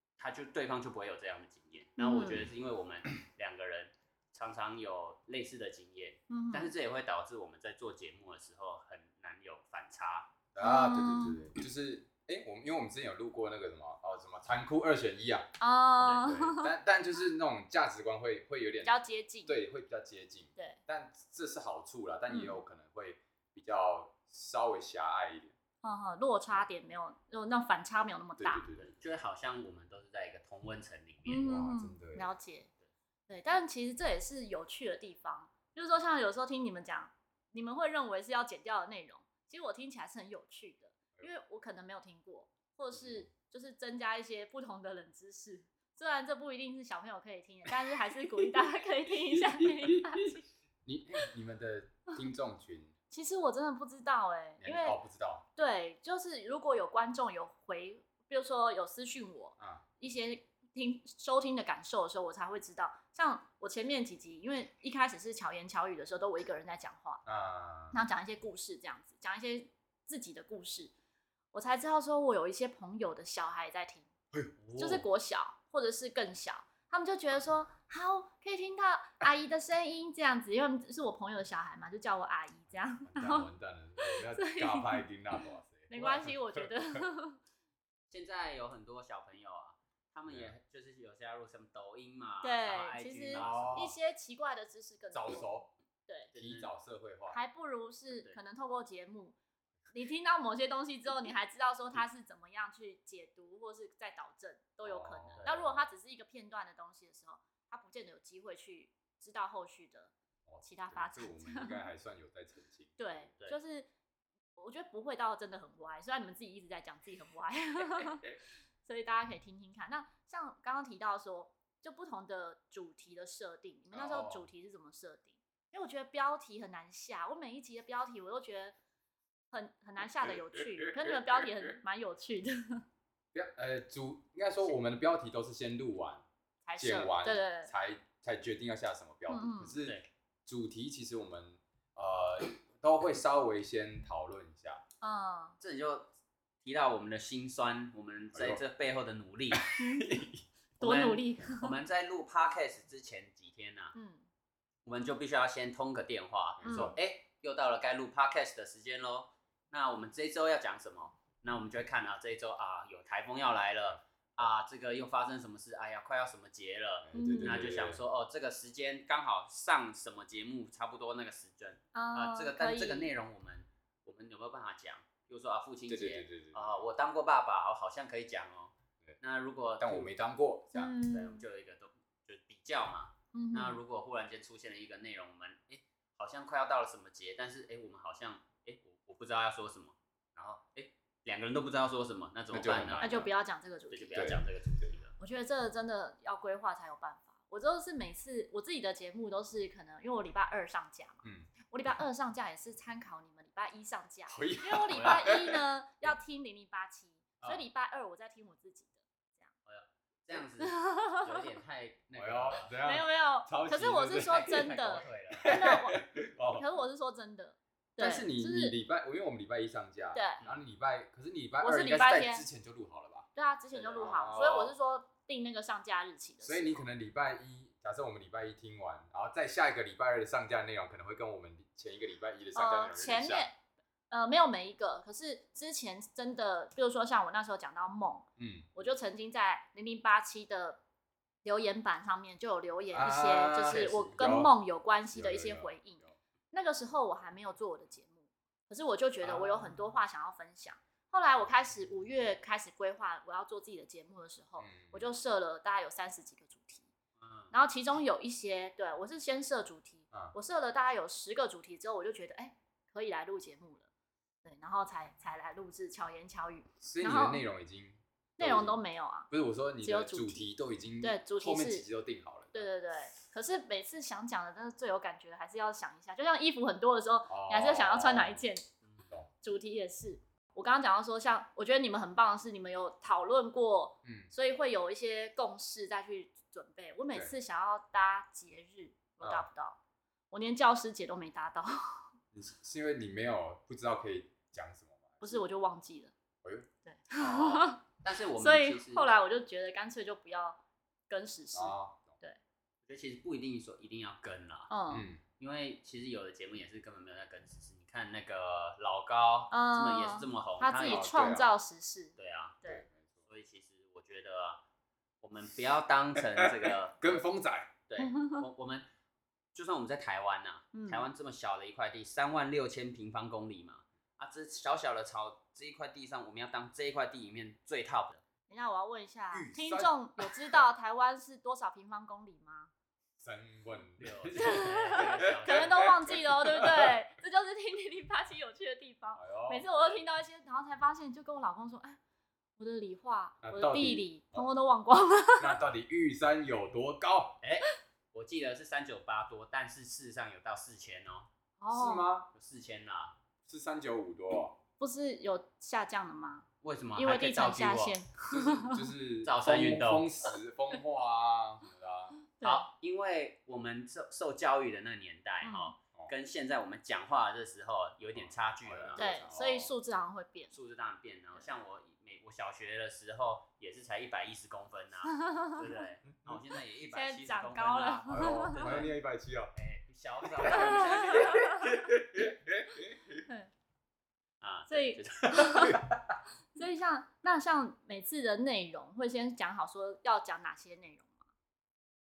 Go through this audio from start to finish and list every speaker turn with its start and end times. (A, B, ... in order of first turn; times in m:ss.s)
0:00.2-0:10.3 A
0:02.0-0:02.5 B
0:02.2-0:02.5 C
0:06.3-0:06.7 B
0:10.5-0:15.6 C
0:10.6-0:11.5 B
0:15.6-0:16.7 B
0:16.2-0:18.9 C
0:18.8-0:19.6 B
0:19.5-0:25.6 C
0:22.3-0:22.6 B
0:25.8-0:28.7 B
0:28.4-0:29.0 C
0:28.8-0:31.5 A
0:31.3-0:32.7 B
0:31.4-0:32.3 C
0:33.3-0:50.4 B
0:42.9-0:43.3 C
0:49.3-0:52.9 C
0:53.1-0:55.0 B
0:54.6-0:55.5 C
0:55.6-1:07.2 B
0:59.6-0:59.8 C
1:07.2-1:08.0 C
1:07.9-1:10.9 B
1:11.5-1:14.1 B
1:14.3-1:14.6 C
1:14.6-1:15.0 A
1:14.8-1:23.5 B
1:23.0-1:26.7 C
1:24.0-1:25.0 B
1:25.9-1:27.4 B
1:28.1-1:33.9 A
1:32.4-1:35.6 B
1:33.3-1:34.0 C
1:35.1-1:35.7 C
1:36.3-1:36.7 A
1:36.4-1:37.4 C
1:37.3-1:39.4 B
1:38.1-1:38.4 A
1:39.9-1:51.8 B
1:44.8-1:45.6 C
1:45.4-1:45.6 A
1:50.5-1:53.3 C
1:53.0-1:53.9 B
1:54.6-1:58.3 B
1:58.8-2:08.8 B
2:03.9-2:04.5 C
2:09.5-2:12.8 B
2:10.2-2:11.5 C
2:13.3-2:16.2 C
2:16.7-2:17.7 B
2:16.8-2:24.8 C
2:19.3-2:19.8 B
2:25.0-2:25.6 B
2:25.6-2:26.1 A
2:26.6-2:29.7 A
2:28.3-2:28.6 C
2:29.5-2:30.4 C
2:29.8-2:30.1 B
2:30.8-2:34.0 A
2:30.8-2:31.7 B
2:34.0-2:34.3 B
2:34.8-3:00.1 A
2:36.6-2:37.0 C
2:36.6-2:37.0 B
2:43.9-2:44.4 C
2:47.0-2:48.0 C
2:47.1-2:47.7 B
2:51.9-2:53.1 B
2:55.9-2:56.9 C
2:59.8-3:01.0 C
3:00.7-3:01.4 B
3:01.0-3:13.2 A
3:03.3-3:03.8 B
3:12.5-3:13.3 C
3:13.0-3:14.4 B
3:13.9-3:15.1 A
3:14.2-3:14.9 C
3:15.2-3:29.5 B
3:21.2-3:21.5 C
3:24.3-3:25.6 C
3:24.9-3:25.3 A
3:29.7-3:32.8 A
3:30.6-3:31.4 B
3:32.2-3:34.7 C
3:32.8-3:38.8 B
3:34.3-3:35.5 A
3:35.4-3:36.6 C
3:38.0-3:44.7 C
3:40.1-3:40.4 B
3:41.6-3:42.4 B
3:43.4-3:46.9 B
3:46.4-3:53.5 C
3:52.6-3:53.6 B
3:54.1-4:00.8 B
3:58.4-3:58.7 C
4:01.4-4:16.9 B
4:02.9-4:04.5 C
4:03.6-4:04.2 A
4:05.1-4:06.2 C
4:09.2-4:09.8 C
4:14.6-4:15.1 C
4:17.2-4:17.5 A
4:17.5-4:23.9 B
4:24.4-4:27.4 B
4:26.8-4:28.8 C
4:28.4-4:29.3 B
4:29.3-4:32.7 C
4:29.8-4:30.5 B
4:31.0-4:31.9 B
4:32.5-4:38.6 B
4:37.3-4:38.4 C
4:39.0-4:39.3 C
4:39.4-4:49.8 B
4:44.0-4:44.3 C
4:49.2-4:49.5 C
4:50.3-4:52.0 B
4:52.3-4:55.4 C
4:55.2-4:56.1 B
4:56.4-4:56.7 C
4:56.8-4:57.8 B
4:57.2-4:59.1 A
4:58.4-5:00.6 B
5:01.1-5:02.4 B
5:01.5-5:02.2 C
5:02.9-5:04.7 A
5:04.7-5:05.1 B
5:04.9-5:05.2 C
5:05.4-5:11.1 A
5:09.5-5:12.8 B
5:10.8-5:11.5 C
5:12.2-5:12.6 A
5:12.6-5:13.2 C
5:13.3-5:14.6 A
5:15.2-5:17.2 A
5:16.2-5:17.8 C
5:17.9-5:18.9 A
5:18.0-5:18.4 B
5:19.5-5:28.2 A
5:20.7-5:21.1 B
5:28.5-5:32.7 B
5:29.3-5:30.7 C
5:33.2-5:37.0 C
5:34.0-5:36.0 A
5:34.4-5:42.0 B
5:39.2-5:39.9 C
5:42.6-5:45.6 B
5:43.4-5:44.5 C
5:45.4-5:47.4 C
5:47.4-5:51.3 A
5:51.6-5:52.1 B
5:51.7-5:52.3 C
5:52.3-5:53.2 A
5:53.4-5:54.6 C
5:54.8-5:58.9 B
5:56.6-5:58.0 A
5:58.3-6:02.2 C
5:59.2-6:00.1 A
6:02.4-6:02.7 B
6:02.4-6:09.2 A
6:05.4-6:05.7 B
6:08.1-6:09.7 C
6:09.0-6:10.5 B
6:10.5-6:19.0 A
6:15.1-6:15.6 B
6:16.9-6:18.7 B
6:18.1-6:19.6 C
6:19.6-6:21.5 A
6:20.2-6:23.2 C
6:20.5-6:21.8 B
6:24.4-6:25.7 A
6:24.7-6:25.8 B
6:25.3-6:26.2 C
6:26.6-6:31.2 B